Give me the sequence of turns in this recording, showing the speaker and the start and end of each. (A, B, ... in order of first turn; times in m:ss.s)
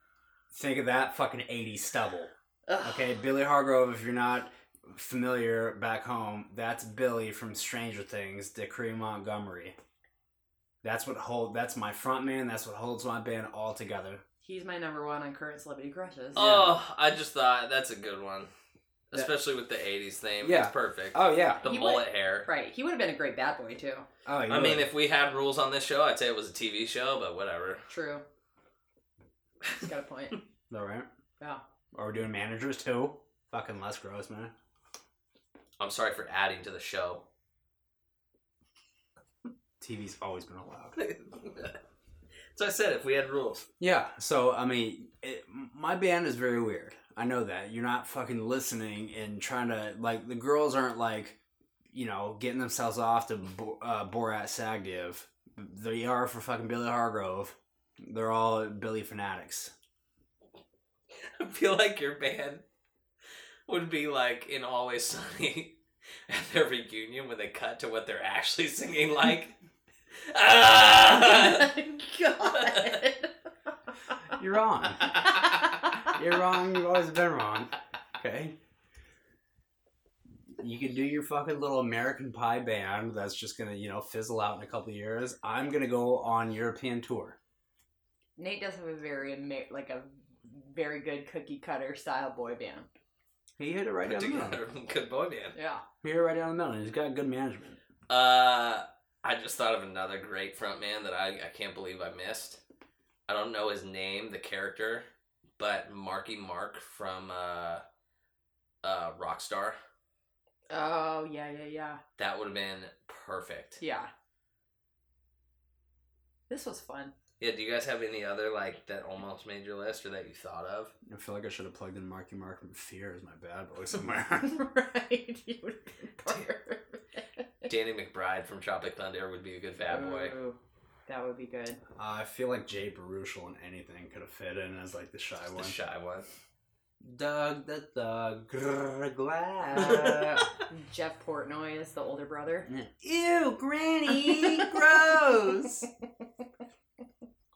0:00.5-0:09.8 A
0:02.7-0:03.1 B
0:10.8-0:14.2 A
0:14.4-0:16.7 B
0:16.3-0:18.5 C
0:19.1-0:22.5 C
0:20.4-0:21.6 A
0:21.6-0:24.1 B
0:24.3-0:24.9 A
0:24.5-0:27.8 C
0:27.9-0:28.2 B
0:29.7-0:30.4 B
0:30.7-0:31.1 A
0:31.9-0:34.5 A
0:35.8-0:37.3 C
0:39.8-0:41.0 A
0:41.0-0:41.8 C
0:42.6-0:43.7 C
0:43.8-0:51.4 A
0:51.9-0:59.7 A
1:01.2-1:02.6 C
1:03.7-1:09.5 C
1:10.3-1:11.8 C
1:11.1-1:13.3 B
1:12.6-1:13.0 C
1:14.3-1:15.3 A
1:16.0-1:18.6 A
1:20.6-1:27.4 A
1:28.4-1:32.9 B
1:33.6-1:34.6 A
1:34.0-1:35.6 C
1:35.6-1:35.8 B
1:36.0-1:37.8 A
1:38.1-1:42.6 C
1:43.3-1:45.0 C
1:45.6-1:47.8 C
1:48.8-1:49.8 C
1:50.7-1:52.0 B
1:52.2-1:53.8 C
1:53.8-1:54.1 B
1:56.5-1:57.1 B
1:57.4-2:00.9 C
2:01.1-2:04.6 A
2:04.4-2:07.3 B
2:07.6-2:10.3 C
2:09.9-2:11.8 B
2:12.0-2:15.8 A
2:15.5-2:16.3 C
2:17.0-2:20.5 A
2:19.7-2:20.1 B
2:20.7-2:22.7 B
2:22.7-2:25.9 A